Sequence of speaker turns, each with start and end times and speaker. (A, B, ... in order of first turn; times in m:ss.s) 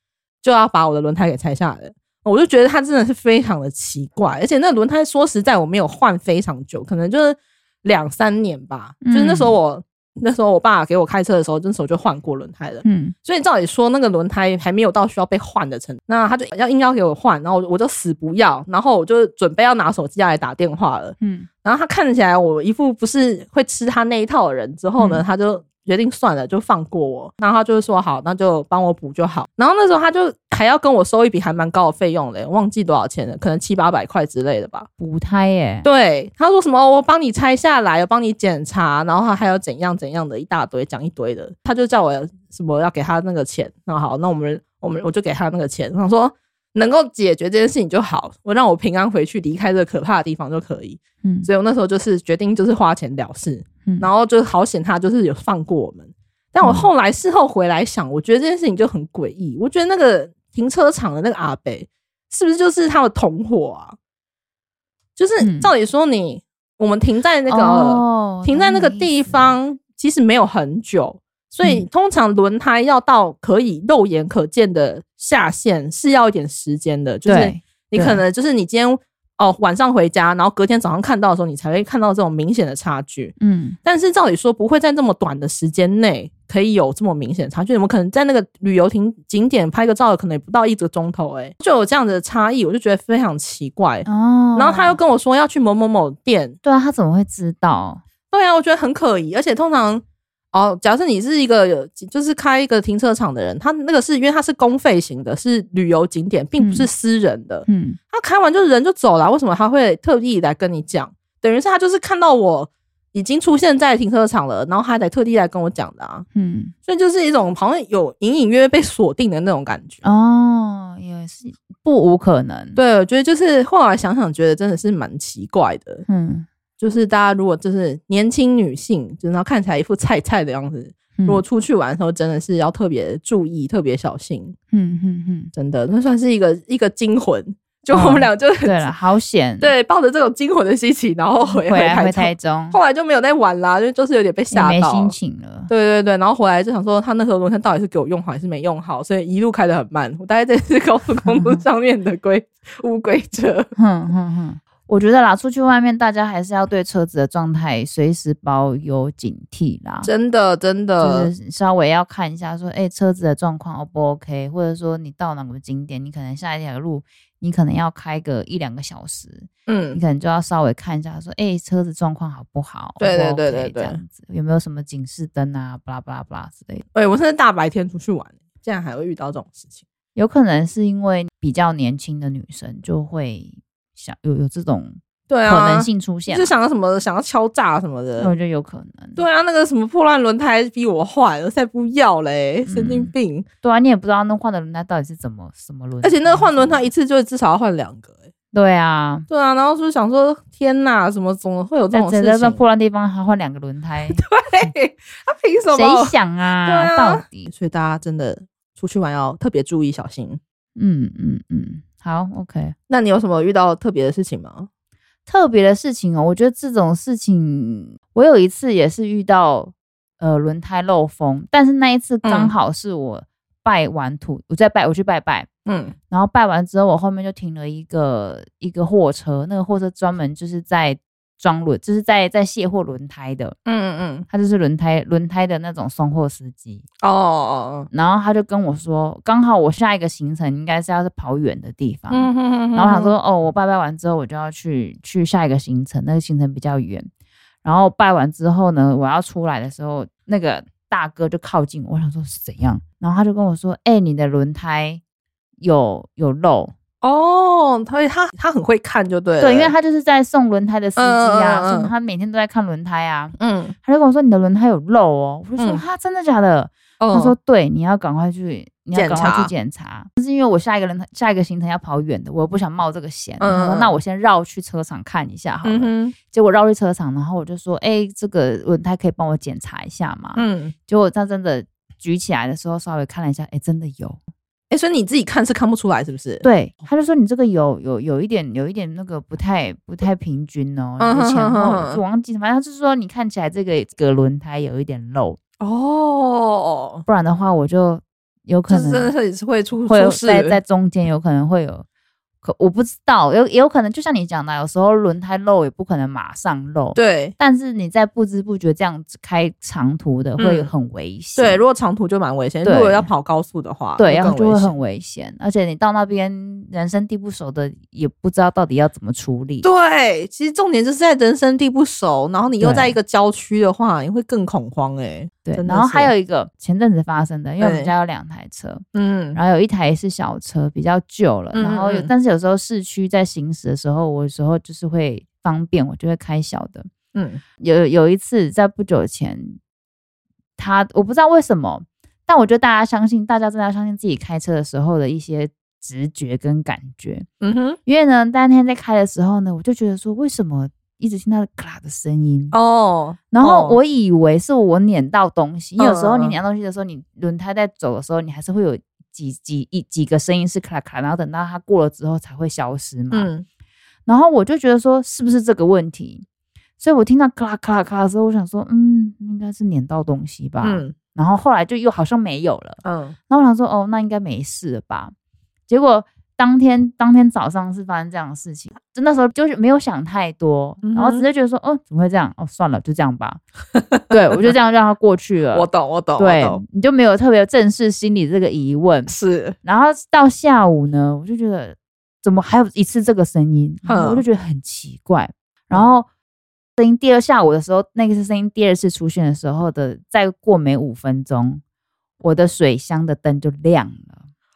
0:00.4-0:34.9 A
0:09.0-0:09.6 B
0:12.8-0:13.1 B
0:21.2-0:21.5 B
0:25.0-0:25.2 B
0:35.0-0:35.9 B
0:35.8-1:04.0 A
0:51.2-0:51.5 B
0:56.6-0:56.9 B
1:05.2-1:36.6 A
1:05.4-1:05.7 B
1:07.5-1:09.5 B
1:17.2-1:18.2 B
1:23.4-1:23.8 B
1:34.0-1:35.0 B
1:36.6-1:38.0 B
1:38.3-1:56.2 A
1:46.6-1:46.9 B
1:47.7-1:48.0 B
1:56.3-1:56.7 B
1:56.9-2:00.0 A
2:00.0-2:02.8 B
2:02.8-2:06.0 A
2:06.1-2:06.5 B
2:06.8-2:14.6 A
2:11.2-2:11.4 B
2:14.7-2:15.5 B
2:15.5-2:18.9 A
2:17.9-2:19.7 B
2:19.6-2:25.1 A
2:21.4-2:22.8 B
2:24.5-2:25.7 B
2:25.7-2:33.7 A
2:31.2-2:31.6 B
2:33.8-2:40.1 B
2:40.0-2:41.3 A
2:41.0-2:56.8 B
2:49.7-2:50.0 A
2:53.0-2:54.0 A
2:56.9-2:59.8 A
3:00.1-3:06.5 B
3:05.3-3:08.3 A
3:08.2-3:09.2 B
3:09.2-3:13.4 A
3:12.6-3:13.1 B
3:13.6-3:16.8 B
3:16.0-3:18.2 A
3:18.5-3:19.3 B
3:19.3-3:22.6 A
3:21.9-3:24.2 B
3:24.1-3:30.4 A
3:25.7-3:27.5 B
3:30.8-3:32.7 B
3:32.9-3:34.7 A
3:35.3-3:45.5 B
3:42.2-3:42.5 A
3:45.6-3:45.9 A
3:46.1-3:53.6 B
3:53.6-3:54.2 A
3:54.3-3:56.8 B
3:57.0-3:57.9 A
3:57.9-4:07.1 B
4:02.1-4:03.1 A
4:07.6-4:15.0 B
4:15.6-4:16.7 B
4:17.0-4:19.7 A
4:19.4-4:44.2 B
4:21.0-4:21.9 A
4:23.4-4:23.7 A
4:25.6-4:25.8 A
4:27.0-4:27.3 A
4:28.9-4:29.5 A
4:33.4-4:34.0 A
4:35.6-4:36.2 A
4:40.4-4:40.7 A
4:44.7-4:46.4 A
4:46.4-4:55.4 B
4:51.0-4:52.0 A
4:55.6-4:57.0 A
4:57.0-4:59.1 B
4:58.7-5:00.6 A
4:59.8-5:01.8 B
5:02.4-5:11.6 B
5:06.9-5:07.3 A
5:10.4-5:10.7 A
5:11.4-5:14.7 A
5:12.6-5:13.1 B
5:14.0-5:19.7 B
5:19.6-5:26.1 A
5:22.6-5:23.0 B
5:25.4-5:28.8 B
5:27.6-5:27.9 A
5:28.9-5:29.4 A
5:29.3-5:36.9 B
5:31.5-5:32.1 A
5:37.1-5:37.4 A
5:37.6-5:39.6 B
5:40.6-5:47.3 B
5:47.4-5:47.8 A
5:47.8-5:52.6 B
5:52.5-5:53.8 A
5:53.3-6:03.3 B
5:55.8-5:56.4 A
6:03.1-6:03.4 A
6:04.1-6:06.2 B
6:06.8-6:15.1 B
6:10.6-6:10.9 A
6:12.8-6:13.1 A
6:15.7-6:23.4 B
6:20.8-6:21.2 A
6:23.7-6:24.5 A
6:24.1-6:36.1 B
6:25.5-6:26.6 A
6:29.1-6:29.6 A
6:33.8-6:34.2 A
6:36.8-6:41.6 B
6:42.2-6:44.2 B